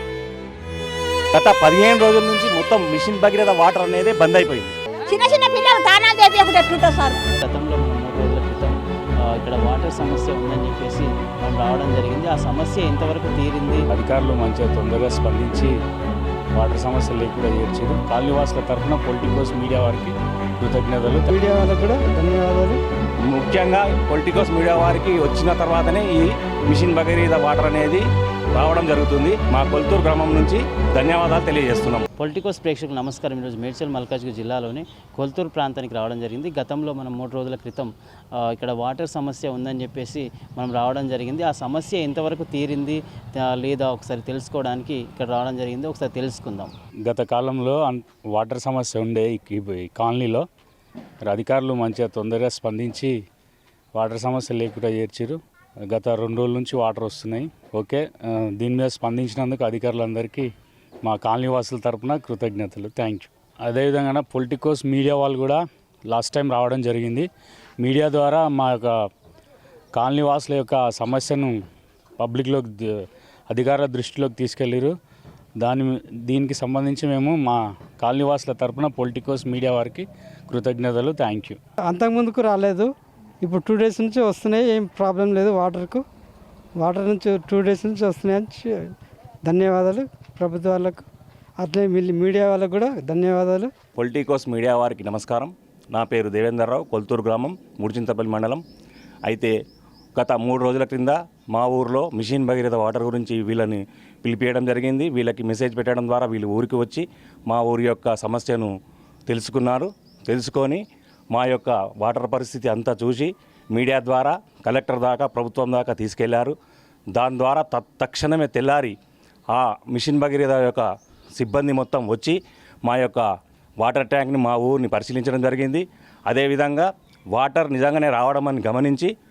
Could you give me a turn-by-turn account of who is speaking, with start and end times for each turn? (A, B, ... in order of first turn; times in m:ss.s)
0:01.3-0:04.7 A
0:05.1-0:07.2 B
0:07.4-0:13.8 C
0:13.9-0:15.7 D
0:16.6-0:21.3 D
0:21.3-0:22.8 E
0:23.3-0:32.1 A
0:32.2-0:46.7 C
0:47.0-0:50.5 D
0:51.2-0:53.1 D
0:54.0-1:00.5 D
1:01.0-1:07.3 D
1:07.8-1:08.9 D
1:09.9-1:11.6 D
1:12.2-1:14.9 D
1:15.6-1:21.6 D
1:21.9-1:22.9 E
1:23.4-1:26.0 E
1:26.8-1:28.9 E
1:29.5-1:31.0 E
1:31.6-1:33.7 E
1:34.0-1:38.6 A
1:39.3-1:39.5 A
1:40.2-1:48.7 A
1:49.3-1:50.8 A
1:51.3-1:56.6 A
1:57.2-1:59.0 A
1:59.5-2:00.8 A
2:01.4-2:03.2 A
2:03.8-2:09.1 A